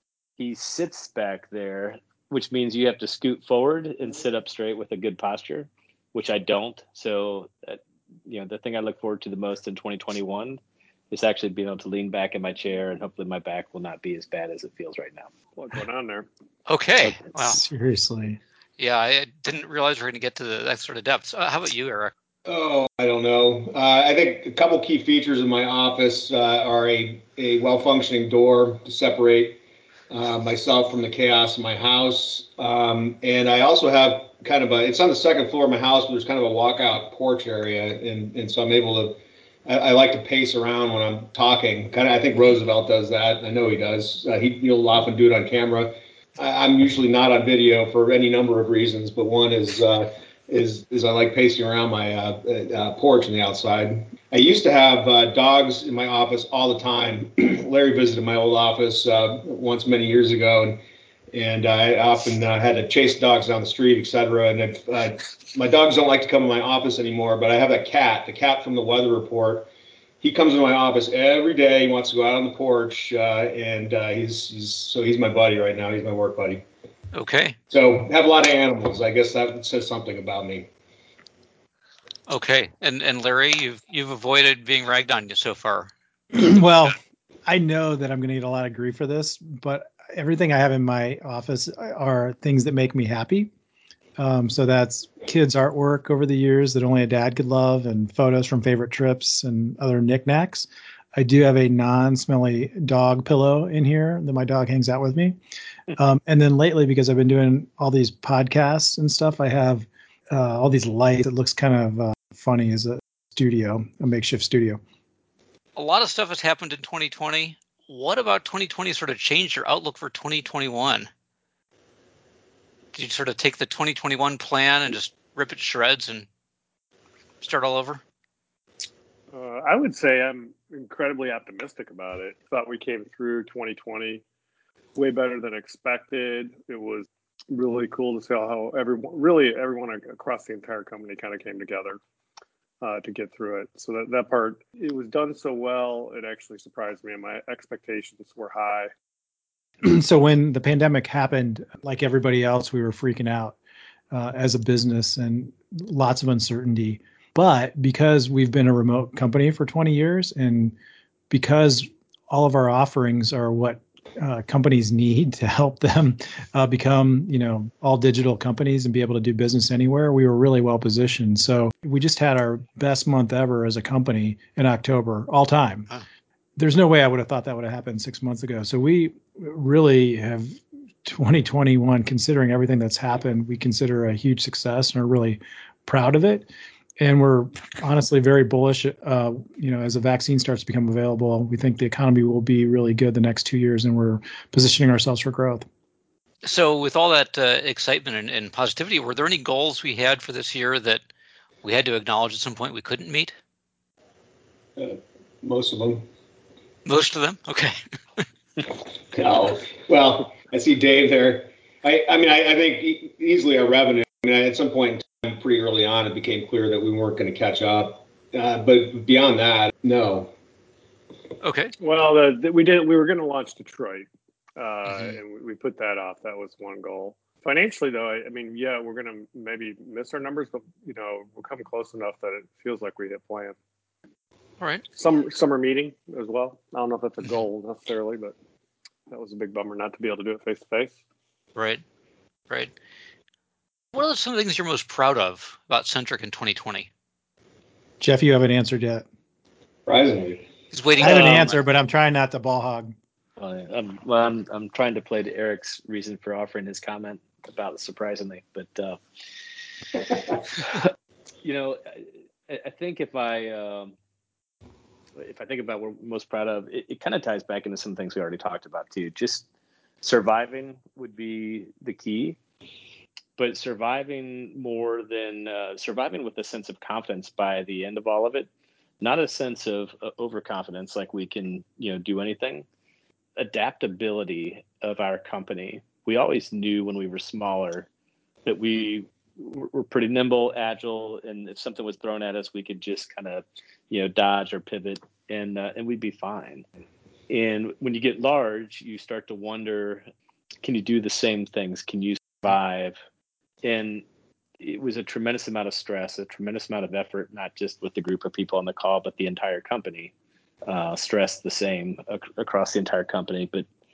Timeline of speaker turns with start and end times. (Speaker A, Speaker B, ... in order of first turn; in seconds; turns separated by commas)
Speaker A: 0.4-15.3, Speaker B: 15.6-16.3, Speaker C: 16.7-17.6, Speaker D: 17.4-18.4, Speaker C: 18.8-22.1, Speaker E: 22.4-60.8, Speaker E: 61.3-69.7, Speaker E: 70.2-76.6, Speaker C: 77.1-77.5, Speaker E: 77.7-80.7, Speaker C: 82.3-85.9, Speaker D: 86.3-93.5, Speaker D: 94.2-105.4, Speaker D: 105.9-114.8, Speaker C: 115.8-121.1, Speaker C: 122.9-126.3, Speaker C: 127.4-128.0, Speaker B: 129.3-134.2, Speaker B: 134.9-142.0, Speaker B: 142.8-148.9, Speaker D: 149.8-153.6, Speaker D: 154.1-160.8, Speaker D: 161.3-175.9, Speaker D: 176.6-195.7, Speaker C: 196.4-201.0, Speaker C: 201.6-203.3, Speaker E: 204.8-206.1, Speaker C: 206.8-208.2, Speaker E: 209.1-220.3, Speaker C: 221.4-221.7, Speaker B: 221.8-233.5, Speaker C: 224.9-225.1, Speaker B: 234.9-238.3, Speaker B: 239.1-241.0, Speaker C: 241.5-241.8, Speaker C: 243.9-246.9, Speaker D: 248.0-249.0, Speaker E: 249.8-250.4, Speaker C: 250.7-251.6, Speaker D: 251.0-252.9, Speaker A: 251.1-251.5, Speaker A: 253.4-259.0, Speaker A: 260.5-260.9, Speaker A: 261.4-263.9, Speaker A: 265.1-269.5, Speaker A: 270.0-272.4, Speaker A: 273.4-278.5, Speaker A: 279.0-282.6, Speaker A: 283.4-287.9, Speaker A: 288.4-296.6, Speaker A: 297.3-300.1, Speaker A: 300.6-303.0, Speaker A: 303.6-304.0, Speaker A: 304.6-310.1, Speaker A: 310.7-313.6